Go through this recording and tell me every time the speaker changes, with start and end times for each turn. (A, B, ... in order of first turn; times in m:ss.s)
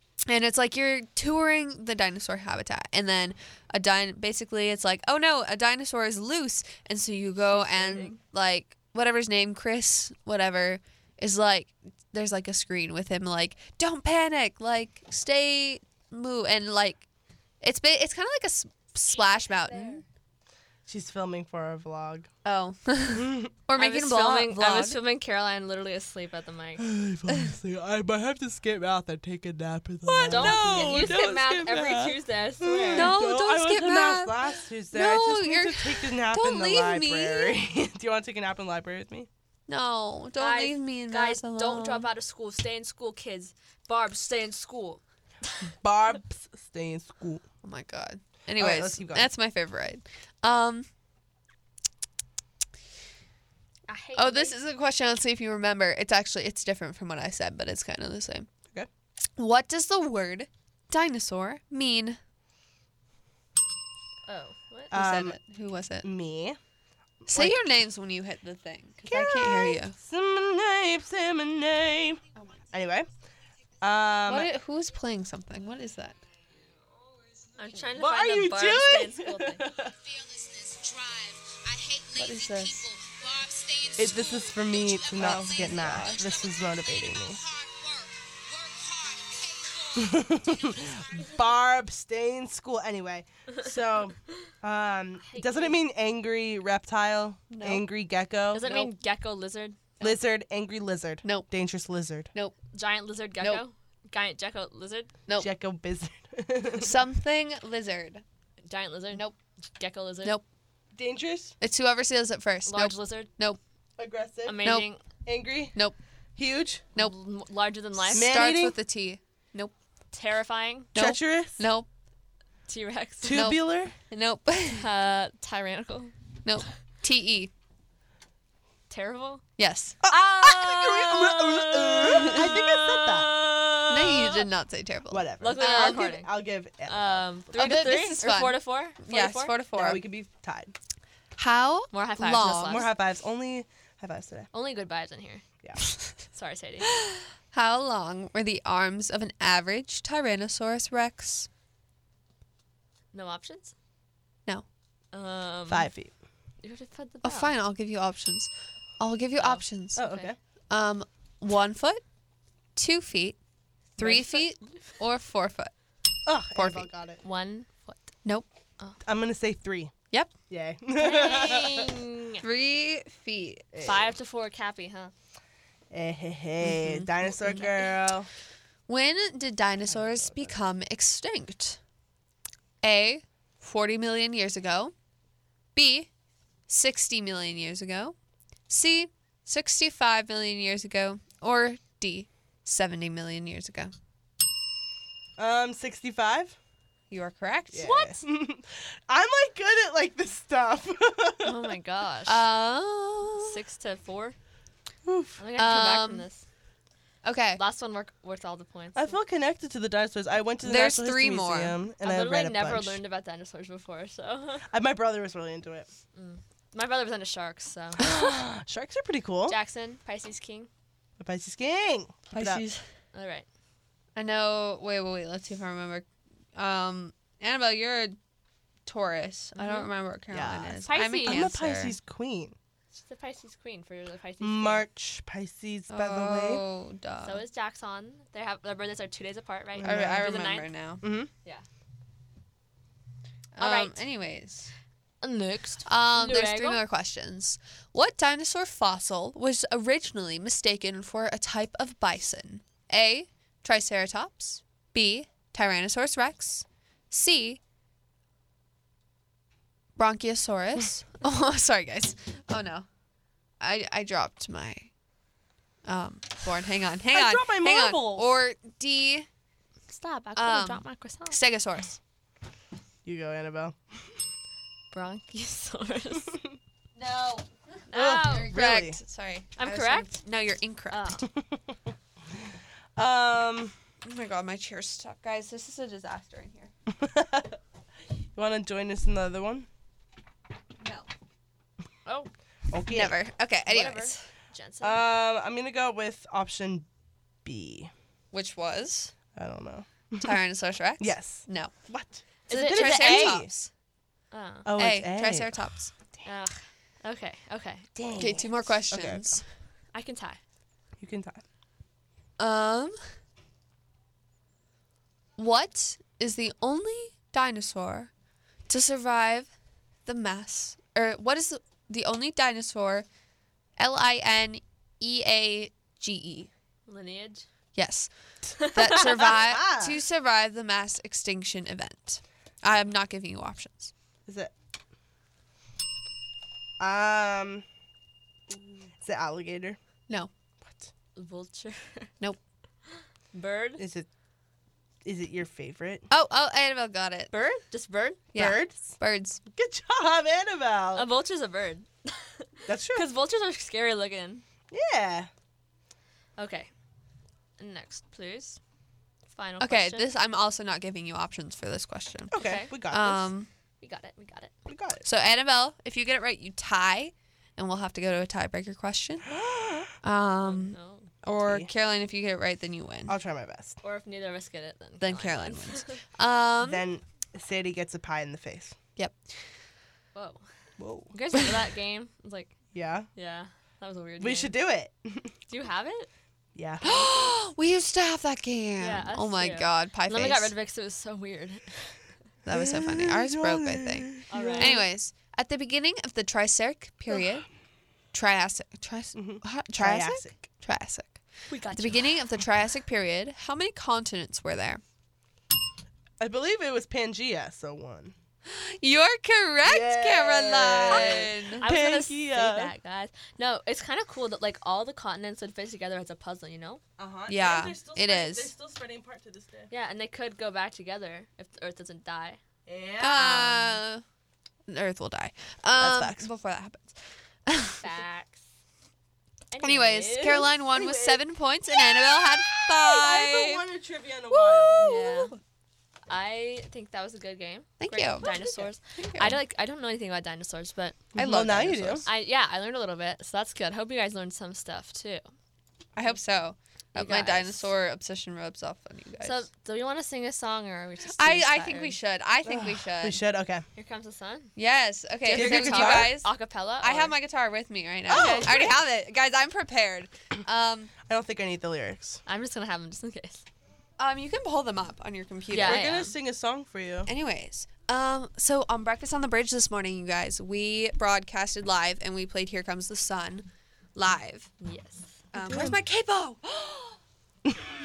0:00.3-0:17.0 A
0:07.5-0:08.2 B
0:17.6-0:20.0 A
0:19.0-0:20.0 B
0:20.9-0:22.3 C
0:22.4-0:25.0 A
0:23.1-0:23.5 C
0:23.8-0:26.8 B
0:26.8-0:39.3 C
0:30.2-0:31.2 A
0:30.2-0:33.2 B
0:32.9-0:37.6 A
0:39.7-0:42.1 A
0:40.4-0:45.0 B
0:45.7-0:47.4 C
0:47.6-0:50.9 A
0:48.6-0:49.3 C
0:53.9-0:54.6 B
0:54.2-0:58.5 A
0:59.4-1:02.2 A
1:04.3-1:04.9 B
1:04.9-1:05.4 C
1:04.9-1:06.1 A
1:06.0-1:06.6 C
1:07.2-1:07.6 C
1:07.3-1:10.0 A
1:09.1-1:13.1 C
1:09.1-1:09.4 B
1:13.8-1:14.5 C
1:14.3-1:16.2 A
1:17.6-1:19.6 B
1:18.0-1:19.9 C
1:19.9-1:31.4 D
1:22.2-1:22.8 A
1:24.0-1:27.4 C
1:25.2-1:26.2 A
1:30.0-1:38.9 C
1:35.2-1:35.8 B
1:37.5-1:37.8 A
1:38.5-1:40.2 B
1:40.0-1:42.3 C
1:41.2-1:41.5 A
1:42.7-1:45.1 B
1:45.4-1:47.0 C
1:46.8-1:48.2 A
1:48.7-1:50.4 B
1:50.9-1:51.6 C
1:51.6-1:53.6 A
1:52.7-1:53.3 B
1:54.0-1:54.7 C
1:54.4-1:55.0 B
1:55.2-1:55.8 C
1:56.4-1:56.9 C
1:57.0-1:58.3 B
1:58.0-1:59.7 A
1:58.1-1:58.8 C
2:00.1-2:00.9 B
2:01.0-2:01.7 C
2:01.0-2:01.9 A
2:02.7-2:03.4 B
2:03.2-2:04.0 C
2:03.3-2:04.9 A
2:04.7-2:06.1 B
2:06.4-2:07.5 A
2:08.9-2:09.4 B
2:09.6-2:10.0 A
2:10.0-2:13.4 C
2:10.0-2:14.1 B
2:12.1-2:12.5 A
2:13.9-2:16.1 A
2:15.1-2:17.3 C
2:15.4-2:16.3 B
2:16.9-2:19.5 B
2:17.5-2:20.0 A
2:19.7-2:20.7 C
2:21.4-2:22.8 A
2:21.9-2:22.9 B
2:22.6-2:24.5 C
2:24.5-2:25.4 B
2:26.3-2:26.9 B
2:26.9-2:31.5 A
2:33.1-2:33.7 B
2:35.1-2:35.9 B
2:35.7-2:36.1 C
2:36.6-2:37.6 B
2:37.2-2:40.1 A
2:39.4-2:40.3 B
2:40.0-2:40.4 C
2:40.7-2:42.0 A
2:42.8-2:43.4 A
2:44.0-2:45.7 A
2:44.0-2:44.7 B
2:46.3-2:47.2 C
2:46.5-2:46.9 A
2:47.2-2:48.1 B
2:49.0-2:49.9 C
2:50.5-2:52.1 C
2:51.0-2:52.4 B
2:52.4-2:53.7 A
2:53.7-2:54.2 C
2:53.8-2:55.1 B
2:55.9-2:58.3 C
2:56.6-2:57.1 A
2:57.2-2:57.9 B
2:58.9-3:01.8 A
2:59.9-3:00.5 C
3:02.8-3:04.9 A
3:05.8-3:06.1 A
3:06.7-3:08.2 A
3:08.7-3:13.9 A
3:15.4-3:16.6 C
3:17.1-3:18.0 A
3:17.7-3:21.7 C
3:17.8-3:18.2 B
3:21.4-3:22.4 B
3:22.3-3:23.6 A
3:23.4-3:24.4 B
3:25.0-3:25.4 C
3:25.4-3:26.4 B
3:25.6-3:26.3 A
3:27.2-3:27.6 A
3:27.6-3:29.2 B
3:29.0-3:33.0 C
3:30.6-3:31.8 A
3:32.0-3:34.6 B
3:34.7-3:35.9 C
3:36.2-3:38.1 B
3:38.0-3:39.6 C
3:39.5-3:40.7 B
3:41.2-3:42.7 C
3:42.3-3:42.8 A
3:43.1-3:43.5 B
3:44.2-3:48.2 A
3:48.8-3:52.0 A
3:49.6-3:49.9 B
3:50.3-3:52.6 C
3:50.8-3:51.5 B
3:52.9-3:54.8 B
3:54.4-3:56.6 C
3:55.9-3:57.4 A
3:57.2-4:00.7 B
3:59.8-4:00.4 C
3:59.8-4:01.0 A
4:01.0-4:01.3 C
4:03.6-4:04.7 A
4:03.6-4:04.0 B
4:05.2-4:06.8 B
4:05.9-4:17.6 A
4:20.0-4:22.9 A
4:23.6-4:24.9 A
4:25.8-4:29.3 A
4:27.1-4:28.3 C
4:29.9-4:31.4 B
4:30.4-4:32.0 A
4:33.0-4:34.0 C
4:34.9-4:36.4 B
4:37.0-4:41.2 A
4:37.9-4:38.5 B
4:37.9-4:39.0 C
4:39.6-4:40.2 B
4:40.9-4:41.3 B
4:41.3-4:41.6 C
4:43.0-4:43.7 C
4:44.0-4:46.7 A
4:46.9-4:47.6 C
4:48.4-4:49.7 C
4:50.8-4:51.1 A
4:52.7-4:53.2 C
4:52.9-4:54.3 A
4:53.7-4:55.0 B
4:54.8-4:56.9 C
4:57.4-4:57.9 C
4:58.3-4:59.1 A
4:59.4-5:00.4 C
5:00.2-5:01.7 A
5:01.0-5:03.5 C
5:02.5-5:03.4 B
5:02.5-5:03.7 A
5:04.3-5:04.7 B
5:04.7-5:05.6 C
5:04.8-5:05.9 A
5:06.2-5:07.9 B
5:08.0-5:09.4 C
5:08.2-5:09.4 A
5:09.9-5:10.4 B
5:11.0-5:11.4 C
5:12.4-5:13.0 A
5:15.4-5:18.1 A
5:18.7-5:19.5 A
5:20.1-5:23.1 A
5:23.8-5:26.5 A
5:26.9-5:27.5 B
5:27.8-5:33.9 A
5:28.6-5:29.3 B
5:28.9-5:30.0 C
5:34.3-5:34.5 C
5:36.8-5:37.6 C
5:39.0-5:39.8 C
5:41.2-5:42.1 B
5:43.3-5:43.8 B
5:43.8-5:44.1 C
5:45.0-5:46.1 C
5:46.1-5:47.3 A
5:47.3-5:48.2 B
5:48.3-5:49.4 A
5:48.4-5:48.9 C
5:49.5-5:51.1 C
5:50.9-5:54.4 B
5:52.7-5:53.1 C
5:54.7-5:55.3 C
5:56.4-5:56.7 B
5:57.6-5:58.6 B
5:59.3-6:00.1 B
5:59.6-6:03.5 A
6:02.3-6:03.3 C
6:02.4-6:02.7 B
6:03.8-6:04.5 B
6:04.7-6:05.0 C
6:05.0-6:09.3 A
6:09.2-6:09.9 C
6:10.0-6:13.2 A
6:10.4-6:11.1 B
6:11.4-6:11.7 C
6:13.1-6:13.8 C
6:13.8-6:16.0 B
6:15.0-6:16.9 A
6:16.6-6:18.8 C
6:20.2-6:20.4 B
6:20.8-6:21.1 C
6:21.1-6:22.6 B
6:22.7-6:23.1 C
6:23.2-6:24.5 B
6:24.2-6:25.3 C
6:25.5-6:26.1 B
6:26.6-6:27.1 C
6:26.8-6:27.2 B
6:26.8-6:30.5 A
6:28.8-6:32.0 B
6:32.5-6:37.5 A
6:32.5-6:34.8 C
6:34.3-6:34.8 B
6:38.1-6:41.2 A
6:39.2-6:40.5 C
6:41.5-6:42.0 B
6:41.7-6:44.8 A
6:46.2-6:48.2 C
6:48.5-6:51.7 A
6:49.6-6:52.7 C
6:50.9-6:56.8 B
6:57.0-6:59.7 C
6:57.3-6:58.5 A
6:59.7-7:02.4 B
7:02.7-7:03.6 C
7:03.0-7:04.0 A
7:03.2-7:03.6 B
7:04.7-7:07.8 A
7:05.7-7:06.3 C
7:07.8-7:08.5 B
7:09.5-7:10.5 B
7:09.6-7:13.6 A
7:10.7-7:14.8 C
7:14.3-7:15.3 A
7:14.8-7:15.3 B
7:16.1-7:21.0 B
7:17.8-7:18.4 A
7:18.2-7:18.6 C
7:19.0-7:19.4 A
7:21.1-7:22.1 C
7:21.2-7:22.1 A
7:22.0-7:25.2 B
7:26.0-7:29.4 A
7:27.0-7:27.7 B
7:29.2-7:32.0 B
7:31.2-7:33.2 A
7:32.4-7:33.6 C
7:33.8-7:34.6 B
7:34.6-7:40.9 A
7:35.2-7:37.1 B
7:35.3-7:36.2 C
7:38.1-7:38.8 C
7:38.1-7:38.5 B
7:41.1-7:42.2 C
7:42.3-7:43.4 B
7:44.0-7:46.2 A
7:45.5-7:45.9 B
7:45.5-7:47.1 C
7:47.1-7:54.5 A
7:54.6-7:55.2 B
7:55.3-7:57.0 A
7:55.4-7:55.8 C